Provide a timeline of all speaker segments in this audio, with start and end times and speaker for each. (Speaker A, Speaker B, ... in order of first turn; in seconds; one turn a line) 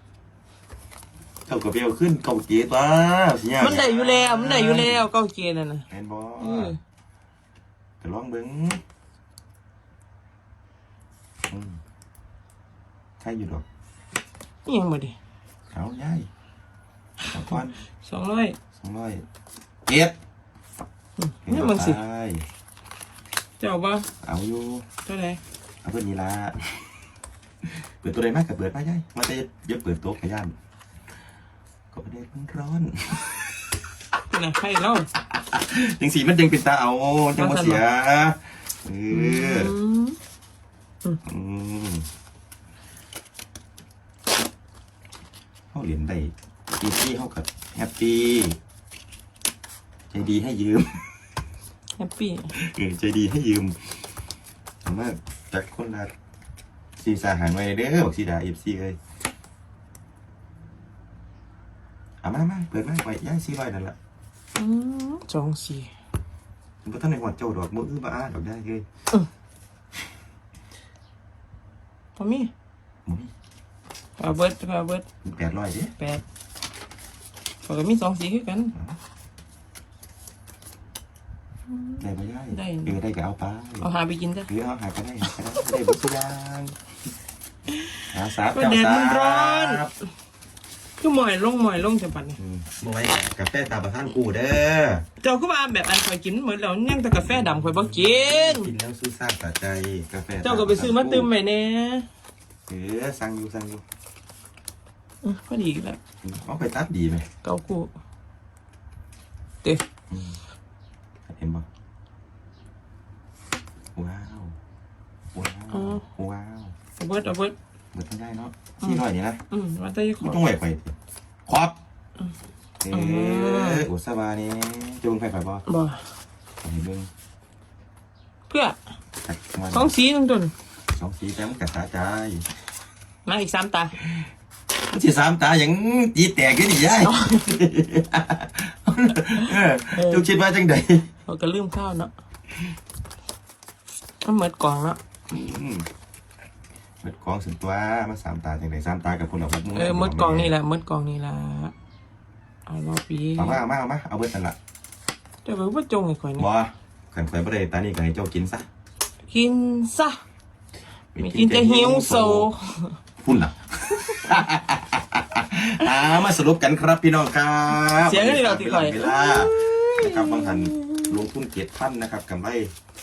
Speaker A: 1.5-5.1
Speaker B: 3.6-5.9
Speaker A: 5.9-6.7
Speaker B: 6.4-6.8
Speaker A: 8.0-8.8
Speaker A: 11.5-11.8
Speaker A: 13.2-13.7
Speaker B: 14.7-15.2
Speaker A: 15.7-16.3
Speaker A: 17.3-17.8
Speaker B: 18.0-18.6
Speaker A: 18.8-19.2
Speaker A: 19.9-20.1
Speaker B: 21.2-22.0
Speaker A: 21.4-22.4
Speaker B: 23.6-24.1
Speaker A: 24.2-24.9
Speaker B: 25.1-25.4
Speaker A: 25.8-26.9
Speaker A: 27.6-30.5
Speaker A: 31.9-33.5
Speaker B: 34.3-35.1
Speaker A: 35.2-39.7
Speaker B: 37.4-37.8
Speaker B: 39.1-40.2
Speaker A: 41.2-42.1
Speaker A: 45.7-48.6
Speaker A: 50.1-51.0
Speaker B: 52.0-52.5
Speaker A: 52.5-54.0
Speaker A: 54.9-56.1
Speaker A: 57.0-59.0
Speaker A: 62.2-64.0
Speaker B: 64.6-65.9
Speaker A: 66.8-68.8
Speaker B: 72.2-72.5
Speaker A: 73.1-73.3
Speaker B: 74.2-75.1
Speaker A: 75.2-75.9
Speaker B: 76.0-76.2
Speaker B: 77.6-78.7
Speaker B: 81.7-83.0
Speaker A: 82.0-83.9
Speaker B: 83.8-84.5
Speaker A: 84.5-86.8
Speaker A: 88.1-89.9
Speaker B: 88.5-89.8
Speaker B: 91.0-92.4
Speaker A: 92.4-95.1
Speaker B: 95.2-98.7
Speaker A: 97.2-101.3
Speaker B: 100.4-102.1
Speaker A: 102.7-103.8
Speaker B: 105.2-106.0
Speaker A: 106.2-107.3
Speaker B: 107.4-107.9
Speaker A: 110.1-110.4
Speaker A: 111.3-111.7
Speaker A: 114.0-114.6
Speaker A: 115.3-116.8
Speaker B: 115.7-116.0
Speaker B: 117.0-117.5
Speaker A: 117.9-119.4
Speaker B: 118.8-120.4
Speaker A: 120.2-120.9
Speaker A: 121.5-121.8
Speaker A: 122.8-125.7
Speaker B: 122.9-123.9
Speaker B: 125.7-126.0
Speaker A: 126.6-127.1
Speaker B: 128.5-128.8
Speaker A: 129.2-129.9
Speaker B: 129.7-130.5
Speaker A: 130.9-132.5
Speaker B: 133.3-133.9
Speaker A: 134.9-141.1
Speaker B: 136.9-137.5
Speaker B: 139.3-140.2
Speaker B: 141.3-142.1
Speaker B: 144.2-145.0
Speaker A: 145.3-145.9
Speaker A: 147.0-150.5
Speaker B: 149.7-151.7
Speaker B: 152.7-153.6
Speaker A: 153.4-154.6
Speaker B: 155.4-156.5
Speaker A: 156.4-158.7
Speaker B: 159.3-160.2
Speaker A: 161.2-162.5
Speaker B: 161.2-163.0
Speaker A: 163.2-172.7
Speaker B: 168.0-171.2